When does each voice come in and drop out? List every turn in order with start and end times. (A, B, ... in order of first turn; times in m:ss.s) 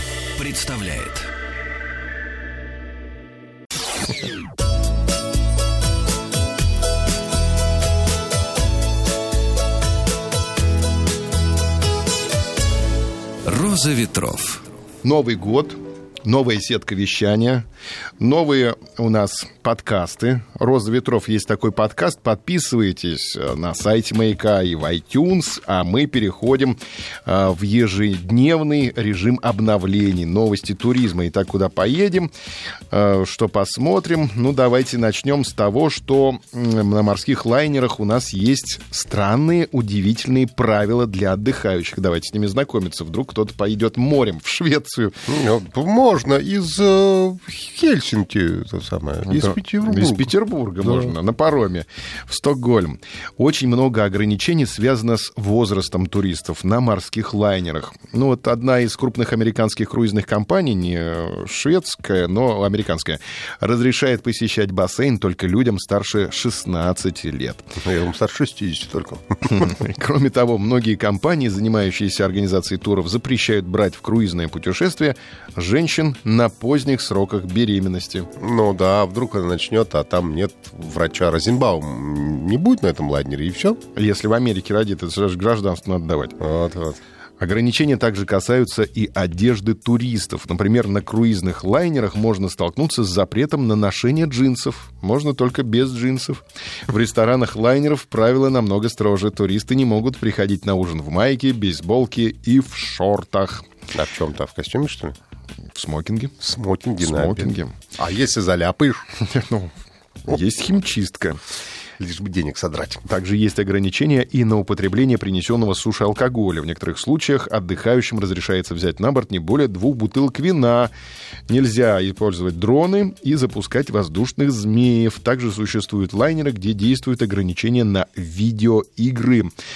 0:00.4-0:01.3 A
0:13.4-0:14.6 A
0:15.0-0:17.6 B
0:18.2-0:32.3 B
0:32.9-0:45.2 B
0:45.3-0:51.2 C
0:49.3-1:07.8 B
1:07.8-1:09.4 C
1:09.5-1:18.3 B
1:18.4-1:23.8 C
1:23.9-1:26.4 B
1:26.4-1:27.0 C
1:27.4-1:43.7 B
1:43.9-1:45.2 C
1:45.7-1:46.4 B
1:46.4-1:49.1 C
1:47.0-1:47.8 B
1:49.2-1:49.7 B
1:50.2-1:51.4 B
1:52.0-1:53.1 C
1:53.1-2:00.9 B
2:01.5-2:09.5 B